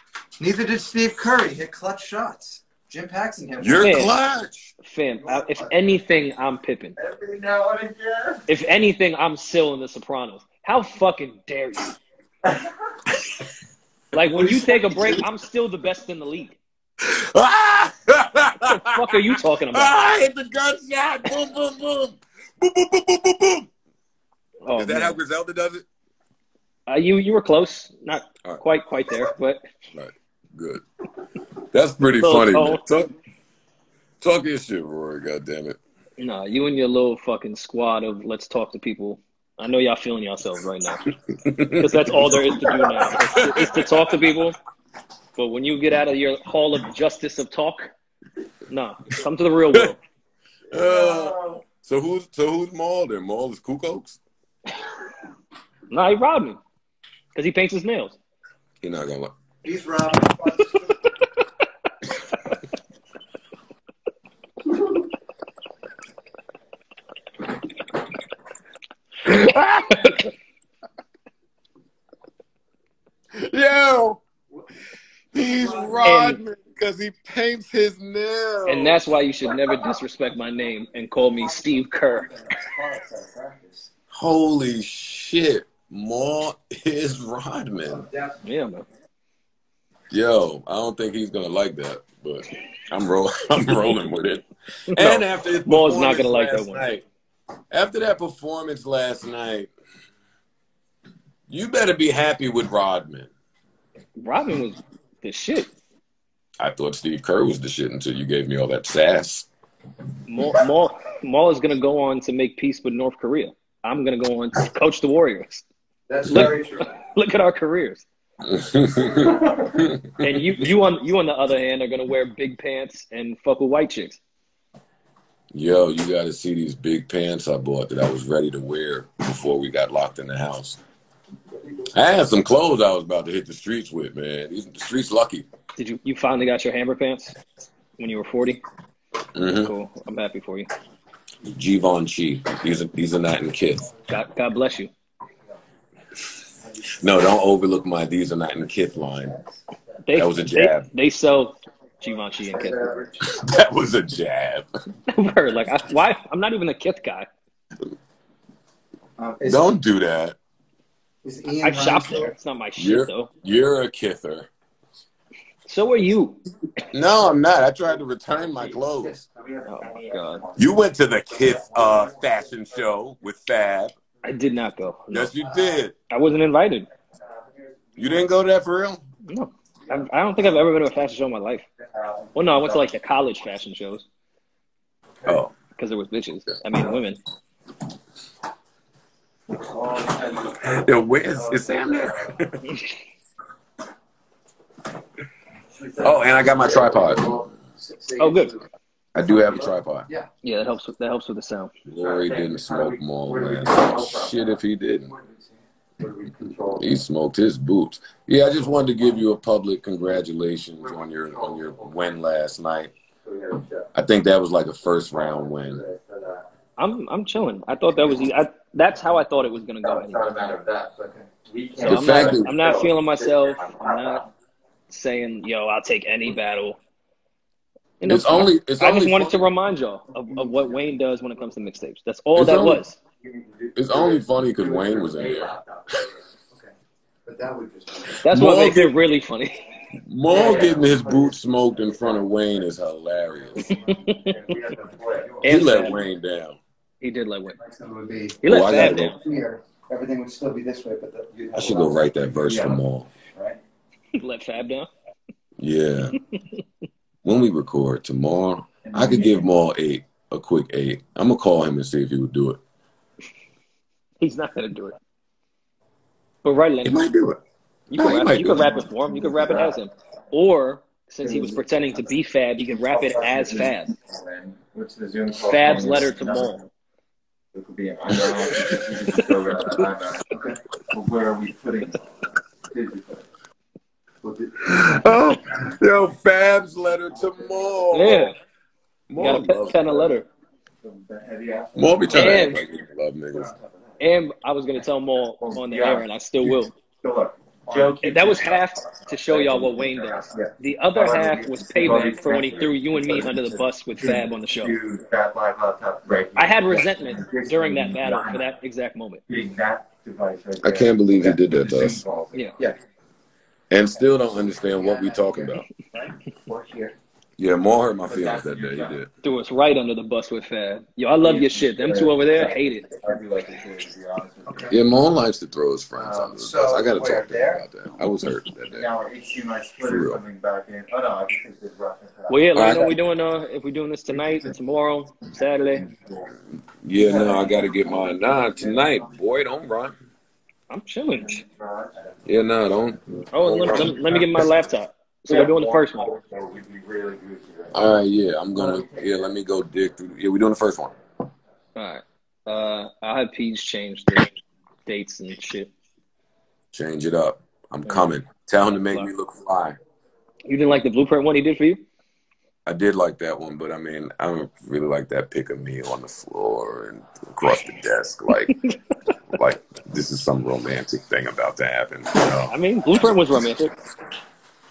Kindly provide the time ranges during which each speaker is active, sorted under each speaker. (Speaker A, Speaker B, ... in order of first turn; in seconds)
Speaker A: 0.4-3.9, 59.6-60.8, 82.3-83.9, 116.1-116.9, 152.5-153.2, 159.2-159.6, 161.2-162.3, 169.0-169.2, 175.4-175.8, 190.0-190.5, 195.8-198.7, 199.2-200.3, 205.1-205.5, 237.2-238.2, 240.3-240.6, 244.8-245.5, 247.6-251.9, 314.7-316.1, 326.4-327.6
Speaker B: 3.6-4.7, 14.4-15.2, 17.0-23.7, 24.7-25.9, 29.9-30.8, 31.7-33.1, 34.2-35.8, 41.4-41.9, 42.6-43.8, 50.7-54.2, 58.8-59.3, 69.2-70.2, 73.3-74.2, 75.3-79.0, 84.1-88.1, 90.1-97.0, 97.7-99.7, 101.5-103.3, 106.6-109.5, 116.3-116.5, 118.5-120.4, 125.5-130.8, 131.9-135.5, 139.3-139.7, 141.4-143.9, 147.0-149.4, 150.1-150.9, 153.2-154.7, 159.4-160.4, 162.8-164.5, 166.9-169.2, 170.6-173.9, 175.1-175.9, 178.0-179.0, 185.3-185.5, 190.5-192.6, 196.0-197.4, 199.2-200.1, 201.9-205.1, 206.8-212.9, 213.9-215.8, 221.8-222.5, 228.1-229.5, 232.3-232.8, 233.8-235.6, 238.2-238.9, 240.1-243.8, 245.4-246.6, 248.4-249.2, 251.5-253.1, 255.6-256.2, 257.2-262.6, 266.9-267.4, 267.9-268.8, 278.1-279.2, 284.6-288.4, 289.1-290.1, 291.8-293.5, 310.6-312.1, 313.7-315.7, 317.4-319.1, 324.7-328.9, 329.8-330.2, 332.5-333.0, 336.8-340.0, 342.2-344.5, 347.7-350.9, 356.7-359.8, 362.7-368.6, 369.3-373.1
Speaker C: 3.8-4.2, 4.8-7.0, 8.5-11.9, 14.1-16.6, 18.7-20.0, 24.6-25.2, 26.9-29.6, 32.2-32.8, 36.2-41.0, 41.7-44.6, 45.4-47.9, 48.7-50.0, 55.9-56.6, 57.3-58.2, 76.0-76.4, 78.7-82.3, 88.4-88.8, 94.9-96.9, 104.2-105.7, 110.3-115.6, 116.3-118.1, 120.2-124.2, 135.8-137.4, 138.0-138.6, 139.6-140.7, 144.1-144.9, 150.0-152.9, 155.1-157.3, 161.6-163.3, 165.7-166.4, 169.7-170.4, 174.2-175.3, 176.1-176.9, 179.3-181.7, 182.3-184.1, 185.8-187.2, 198.2-198.6, 200.4-201.7, 216.8-220.4, 221.8-224.2, 224.9-226.8, 228.0-233.0, 238.2-239.6, 243.9-244.4, 245.4-246.0, 247.0-247.6, 248.4-249.2, 254.2-254.9, 264.2-265.0, 266.4-267.1, 267.9-274.0, 275.5-276.6, 287.9-288.3, 289.2-290.3, 292.1-292.6, 294.0-296.7, 298.0-304.8, 306.4-309.2, 319.2-322.9, 332.3-335.9, 340.7-341.4, 343.3-346.1, 351.8-354.3, 354.9-355.7, 360.5-361.8, 368.4-368.7, 372.5-373.7
Speaker D: 7.0-8.4, 50.7-51.6, 119.1-119.7, 168.5-172.8, 177.2-178.1, 181.8-182.9, 189.6-190.8, 191.4-192.3, 202.0-204.6, 206.0-207.0, 210.8-211.9, 213.2-213.9, 215.1-216.5, 219.8-224.3, 233.2-236.3, 240.3-242.7, 243.3-245.4, 252.2-252.8, 258.9-259.5, 268.7-269.8, 271.2-272.1, 272.9-276.7, 277.5-283.3, 284.2-285.1, 290.8-292.5, 293.3-293.9, 295.4-308.5, 309.3-312.7, 316.1-316.9, 318.0-319.0, 321.2-324.7, 326.0-326.5, 328.7-332.9, 334.1-334.5, 335.7-336.3, 336.9-339.1, 341.2-342.2, 343.7-344.0, 345.3-347.8, 348.6-349.3